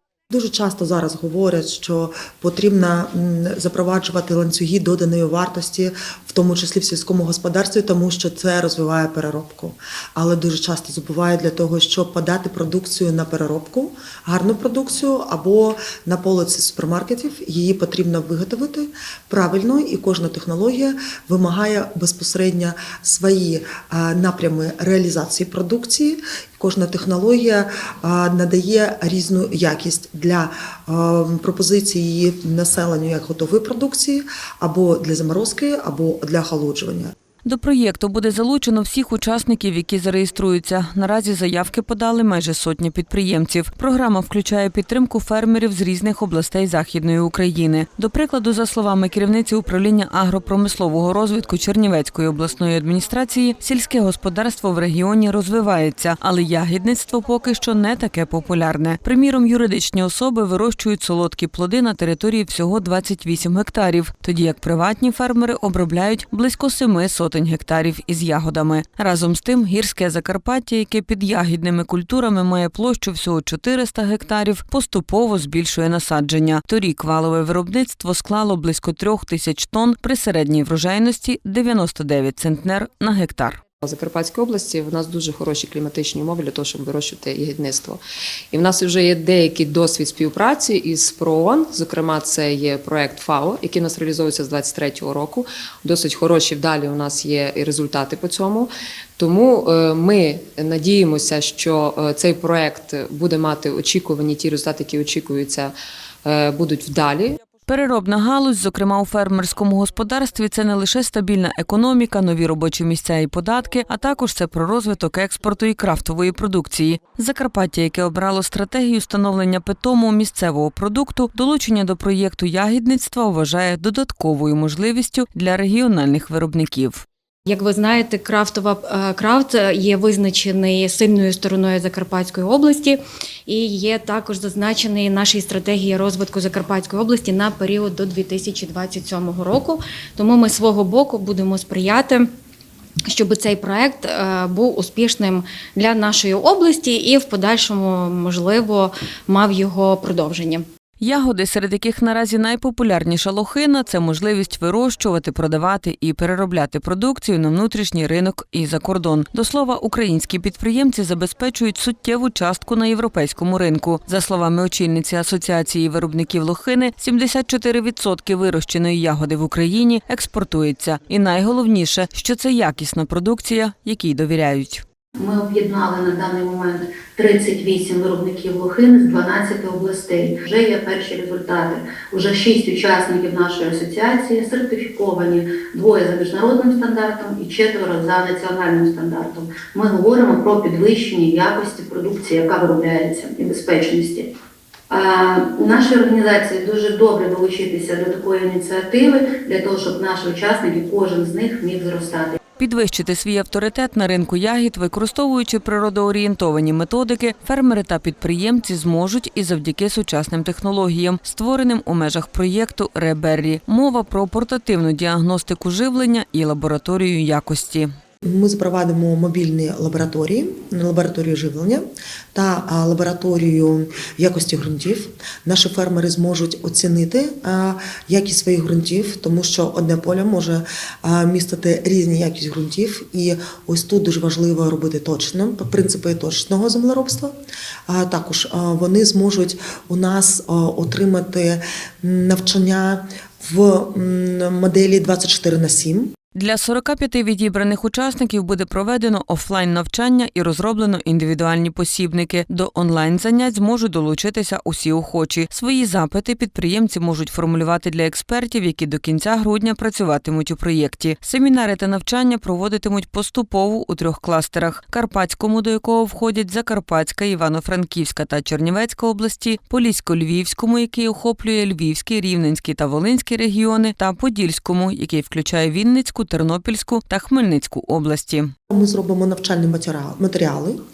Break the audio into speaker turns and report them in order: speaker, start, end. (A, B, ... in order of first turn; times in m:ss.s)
0:00.3-0:37.1 A
0:37.4-1:23.6 B
1:23.8-1:28.0 C
1:28.5-1:45.7 C
1:46.2-1:47.4 C
1:47.6-2:07.0 B
2:07.5-2:22.3 D
2:23.1-2:30.6 D
2:31.0-2:54.8 B
2:55.2-3:14.3 E
3:14.9-3:22.4 E
3:22.6-3:37.9 B
3:38.2-3:41.8 A
3:42.3-3:57.3 A
3:57.9-4:06.1 A
4:06.3-4:38.5 B
4:38.7-4:40.8 A